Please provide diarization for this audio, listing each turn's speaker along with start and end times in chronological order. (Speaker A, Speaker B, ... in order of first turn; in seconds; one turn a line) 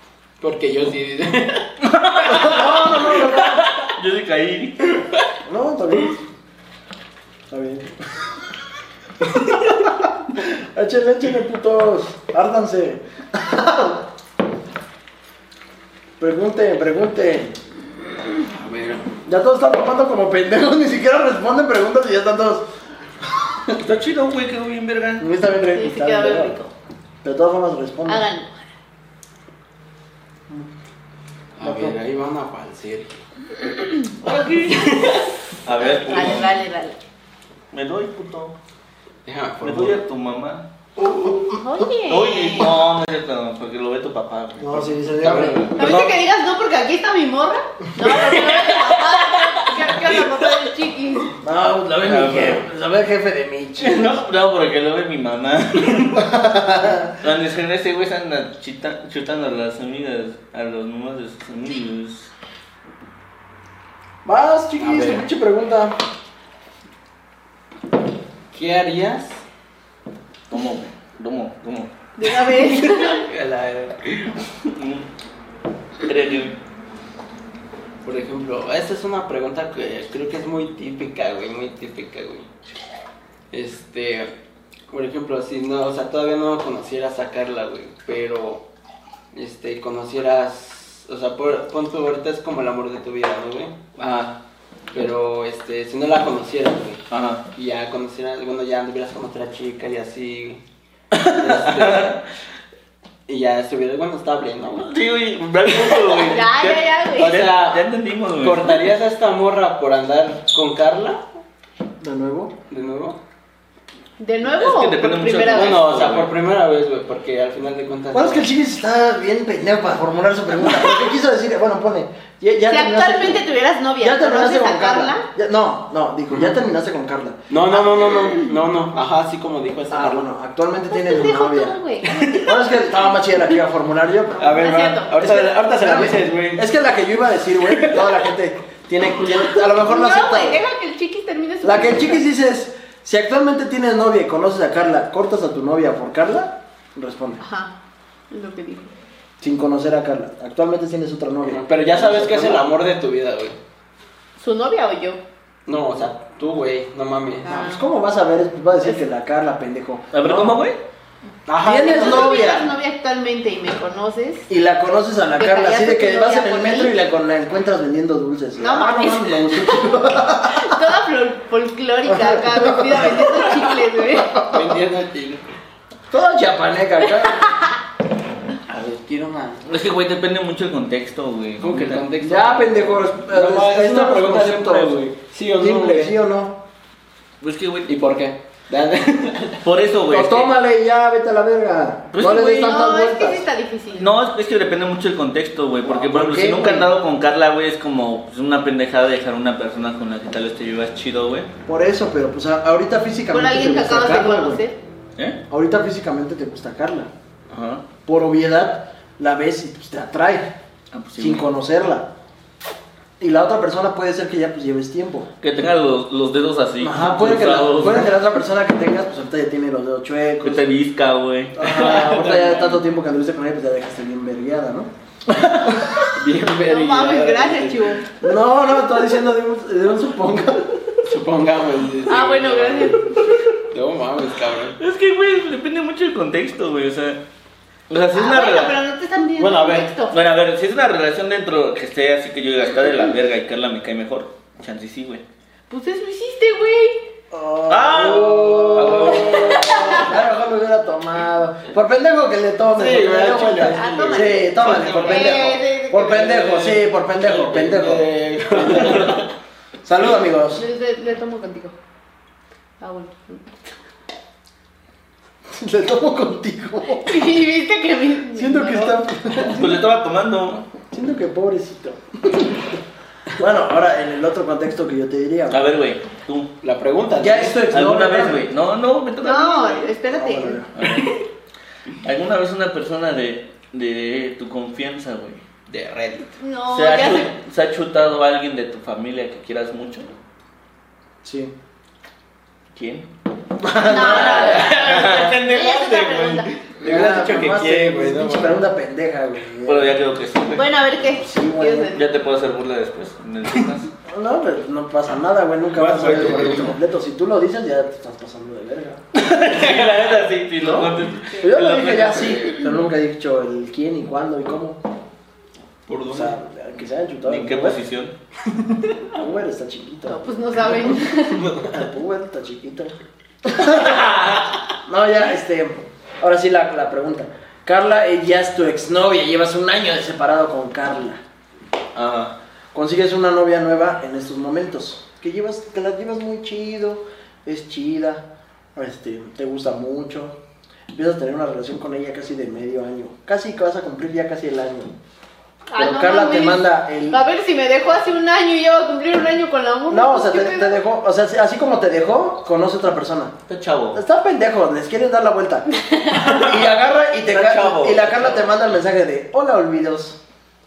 Speaker A: 0.4-1.7
Speaker B: 1.8-5.0
Speaker C: 2.2-3.7
Speaker C: 5.4-6.2
Speaker C: 7.5-7.9
Speaker C: 10.3-14.1
Speaker C: 16.2-17.6
Speaker A: 18.4-19.1
Speaker C: 19.2-22.7
Speaker B: 23.7-25.2
Speaker C: 25.2-26.6
Speaker D: 25.7-26.7
Speaker C: 27.2-28.2
Speaker D: 28.1-28.7
Speaker A: 31.6-33.2
Speaker C: 31.6-31.9
Speaker B: 34.2-35.0
Speaker A: 34.7-35.3
Speaker B: 35.6-36.5
Speaker D: 35.8-37.0
Speaker B: 37.7-38.5
Speaker A: 39.2-40.0
Speaker B: 39.6-40.6
Speaker C: 41.1-41.4
Speaker D: 41.5-42.7
Speaker B: 42.1-46.1
Speaker C: 44.6-46.1
Speaker A: 45.2-45.8
Speaker D: 45.8-51.4
Speaker B: 48.3-48.7
Speaker C: 51.4-54.1
Speaker B: 52.0-52.6
Speaker B: 53.8-56.4
Speaker C: 56.1-57.1
Speaker B: 57.2-62.3
Speaker C: 64.2-66.0
Speaker A: 64.8-65.3
Speaker A: 68.5-69.4
Speaker B: 70.5-71.9
Speaker D: 72.2-73.2
Speaker A: 72.6-74.3
Speaker B: 74.6-75.0
Speaker B: 76.0-76.6
Speaker A: 78.0-82.5
Speaker A: 83.5-84.3
Speaker A: 84.9-88.6
Speaker A: 89.3-93.9
Speaker B: 94.0-94.3
Speaker A: 94.9-97.0
Speaker B: 97.1-97.4
Speaker A: 97.5-100.6
Speaker B: 101.1-102.2
Speaker A: 101.3-102.1
Speaker A: 103.3-104.9
Speaker B: 104.8-108.9
Speaker A: 105.7-106.3
Speaker D: 106.3-107.4
Speaker A: 107.2-107.9
Speaker A: 108.4-111.2
Speaker C: 112.0-112.5
Speaker A: 112.7-113.2
Speaker D: 114.2-115.8
Speaker B: 114.5-116.3
Speaker A: 115.4-118.5
Speaker C: 118.1-123.5
Speaker D: 122.7-125.2
Speaker C: 124.0-128.2
Speaker A: 127.5-130.2
Speaker C: 129.9-131.8
Speaker D: 130.9-132.4
Speaker A: 132.1-132.6
Speaker C: 132.3-140.6
Speaker A: 134.4-136.7
Speaker D: 134.6-135.1
Speaker A: 137.7-138.2
Speaker D: 139.7-142.2
Speaker C: 141.6-147.4
Speaker D: 147.4-147.7
Speaker D: 148.3-148.9
Speaker C: 149.4-152.7
Speaker A: 151.4-153.6
Speaker D: 154.4-155.2
Speaker A: 155.7-157.6
Speaker D: 157.4-157.8
Speaker C: 157.4-160.6
Speaker B: 160.1-160.8
Speaker A: 161.5-162.3
Speaker C: 161.5-162.7
Speaker D: 161.6-164.5
Speaker C: 164.5-170.8
Speaker D: 165.4-166.9
Speaker D: 168.6-174.4
Speaker C: 172.1-174.7
Speaker A: 174.4-175.4
Speaker C: 176.1-177.6
Speaker A: 178.7-179.6
Speaker B: 179.6-182.1
Speaker A: 181.6-186.1
Speaker C: 182.2-185.0
Speaker C: 185.6-186.6
Speaker B: 187.4-188.0
Speaker A: 187.9-189.6
Speaker B: 189.6-190.5
Speaker C: 190.1-193.4
Speaker B: 192.1-192.7
Speaker D: 192.2-194.1
Speaker B: 194.0-201.5
Speaker C: 195.8-196.9
Speaker C: 201.7-204.6
Speaker D: 203.3-204.8
Speaker C: 205.5-207.1
Speaker B: 207.5-207.8
Speaker C: 208.1-210.5
Speaker B: 210.9-211.5
Speaker C: 211.2-212.1
Speaker C: 213.2-215.3
Speaker B: 215.4-218.2
Speaker C: 216.8-220.7
Speaker B: 220.4-222.2
Speaker C: 221.6-226.1
Speaker A: 221.6-222.7
Speaker A: 226.1-228.0
Speaker D: 226.6-228.0
Speaker C: 228.2-230.9
Speaker A: 231.0-233.1
Speaker D: 232.1-233.3
Speaker A: 233.7-234.8
Speaker B: 234.8-237.2
Speaker B: 237.9-238.8
Speaker D: 238.1-240.2
Speaker A: 239.4-239.9
Speaker B: 240.1-245.2
Speaker D: 245.7-247.1
Speaker C: 247.3-259.2
Speaker B: 247.7-249.4
Speaker A: 248.0-250.1
Speaker D: 249.2-250.1
Speaker A: 252.7-255.3
Speaker D: 253.6-256.3
Speaker A: 256.0-259.3
Speaker C: 259.8-260.6
Speaker D: 260.5-261.8
Speaker D: 262.8-263.7
Speaker C: 265.5-267.3
Speaker D: 267.0-269.1
Speaker C: 268.3-269.9
Speaker B: 269.4-270.6
Speaker C: 270.9-272.8
Speaker C: 273.4-275.6
Speaker B: 275.5-276.5
Speaker A: 276.6-277.6
Speaker C: 277.2-278.5
Speaker B: 277.7-279.9
Speaker D: 279.2-280.6
Speaker C: 280.1-280.7
Speaker B: 280.7-281.1
Speaker A: 280.8-281.1
Speaker B: 282.0-285.4
Speaker A: 285.7-286.3
Speaker D: 286.4-287.3
Speaker B: 286.7-290.1
Speaker C: 291.2-291.5
Speaker B: 292.7-293.1
Speaker C: 293.6-294.7
Speaker D: 293.8-296.5
Speaker B: 294.1-295.6
Speaker A: 294.1-298.6
Speaker C: 296.8-300.0
Speaker B: 299.6-300.8
Speaker D: 300.5-302.0
Speaker C: 301.0-301.9
Speaker B: 301.9-303.9
Speaker C: 304.1-309.0
Speaker A: 305.7-306.8
Speaker B: 309.1-312.6
Speaker C: 310.6-314.8
Speaker A: 315.9-316.3
Speaker C: 316.1-317.8
Speaker B: 317.2-318.1
Speaker C: 319.1-320.2
Speaker D: 320.1-321.4
Speaker A: 321.3-321.8
Speaker C: 321.7-324.3
Speaker C: 324.8-331.2
Speaker B: 331.9-332.3
Speaker C: 332.7-340.4
Speaker C: 340.9-344.9
Speaker D: 345.7-350.8
Speaker C: 345.8-347.2
Speaker C: 349.9-353.3
Speaker B: 353.5-354.0
Speaker C: 353.9-360.2
Speaker D: 355.8-356.4
Speaker B: 357.3-358.5